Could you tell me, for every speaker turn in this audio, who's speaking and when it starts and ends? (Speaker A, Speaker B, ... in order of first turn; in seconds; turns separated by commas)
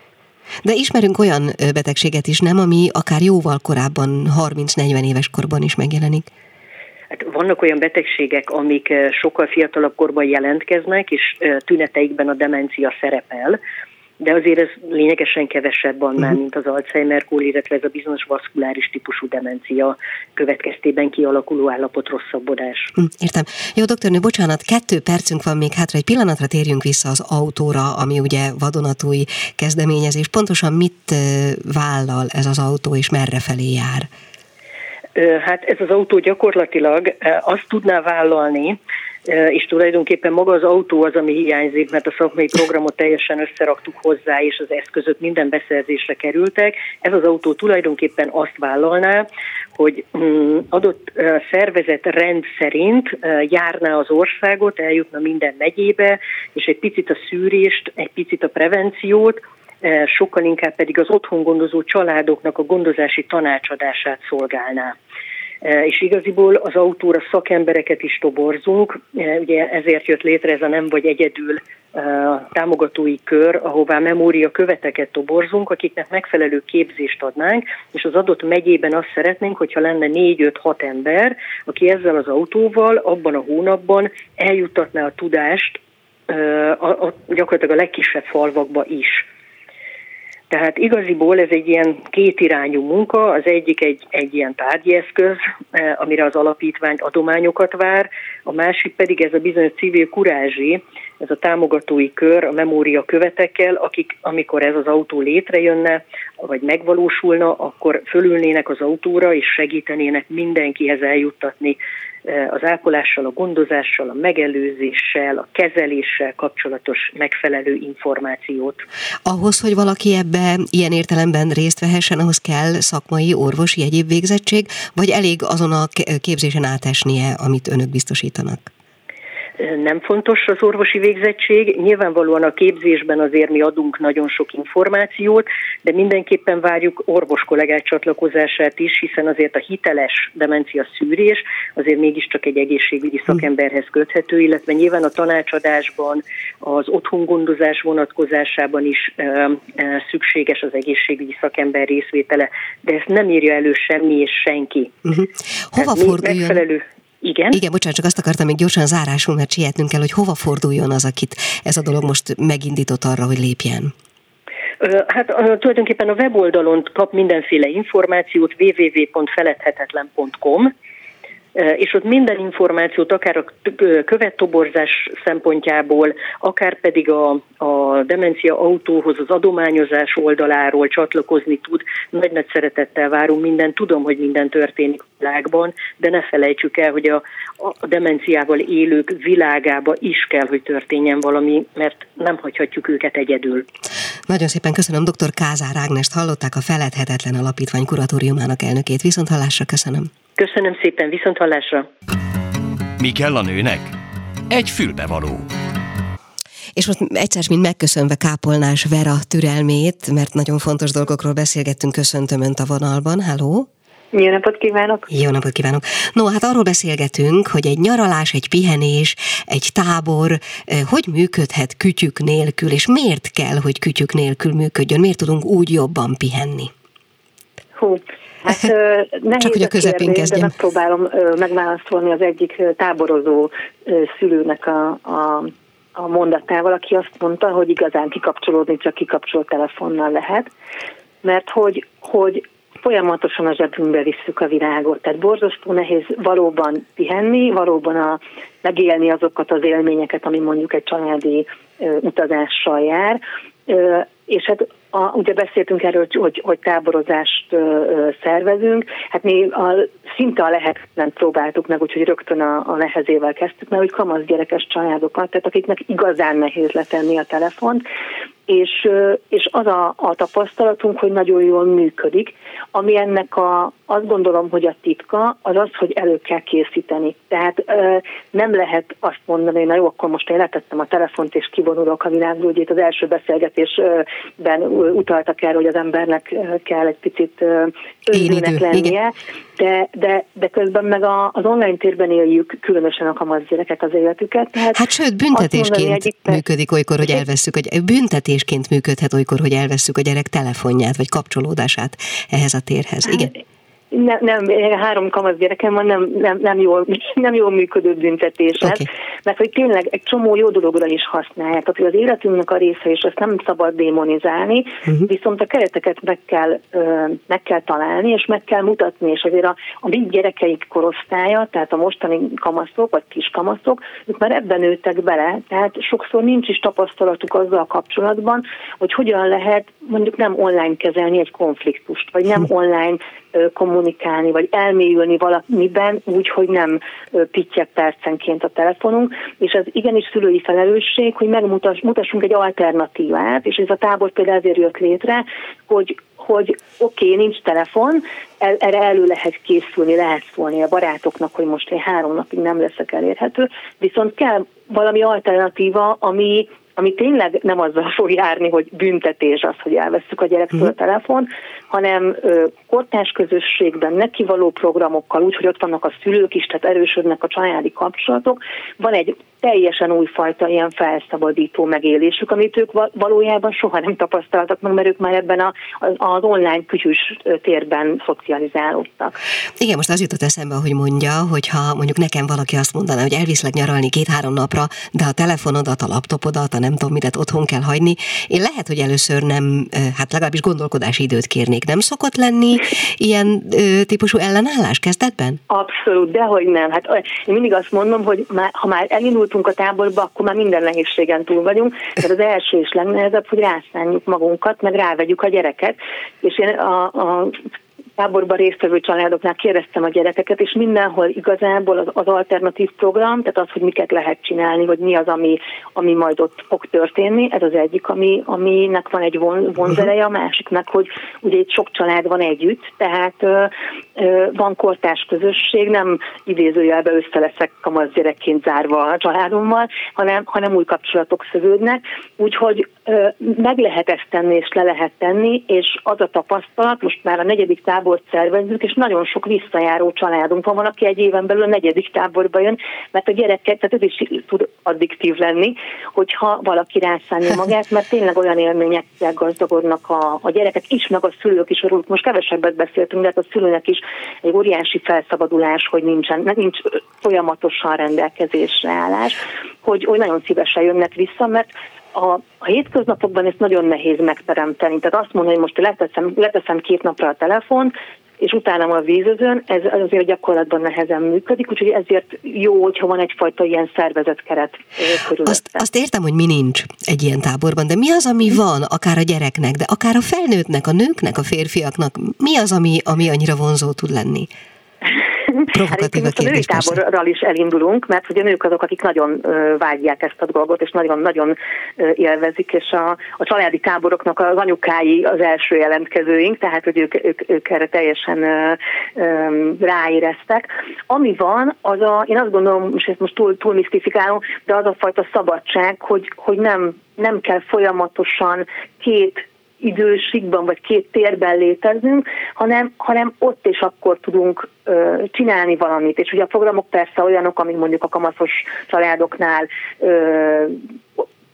Speaker A: 0.6-6.3, Speaker B: 7.1-13.6, Speaker B: 14.2-22.9, Speaker A: 23.0-34.1, Speaker B: 35.1-64.9, Speaker B: 65.6-89.2, Speaker B: 90.5-118.8, Speaker A: 119.2-128.7, Speaker B: 129.6-154.9, Speaker A: 155.1-156.6, Speaker B: 155.8-157.6, Speaker A: 157.5-163.9, Speaker B: 164.8-170.7, Speaker B: 171.5-193.7, Speaker A: 194.3-200.1, Speaker B: 200.4-201.9, Speaker C: 203.0-203.9, Speaker C: 204.5-205.4, Speaker A: 206.8-213.7, Speaker D: 214.1-215.1, Speaker A: 215.1-226.7, Speaker D: 227.8-240.5, Speaker A: 229.4-230.5, Speaker D: 241.2-267.8, Speaker D: 268.5-296.4, Speaker A: 288.1-288.9, Speaker A: 294.7-303.3, Speaker D: 303.9-379.2, Speaker A: 379.6-395.4, Speaker D: 395.5-407.4, Speaker D: 408.0-475.6, Speaker A: 475.2-484.3, Speaker D: 485.3-521.0, Speaker A: 485.5-486.8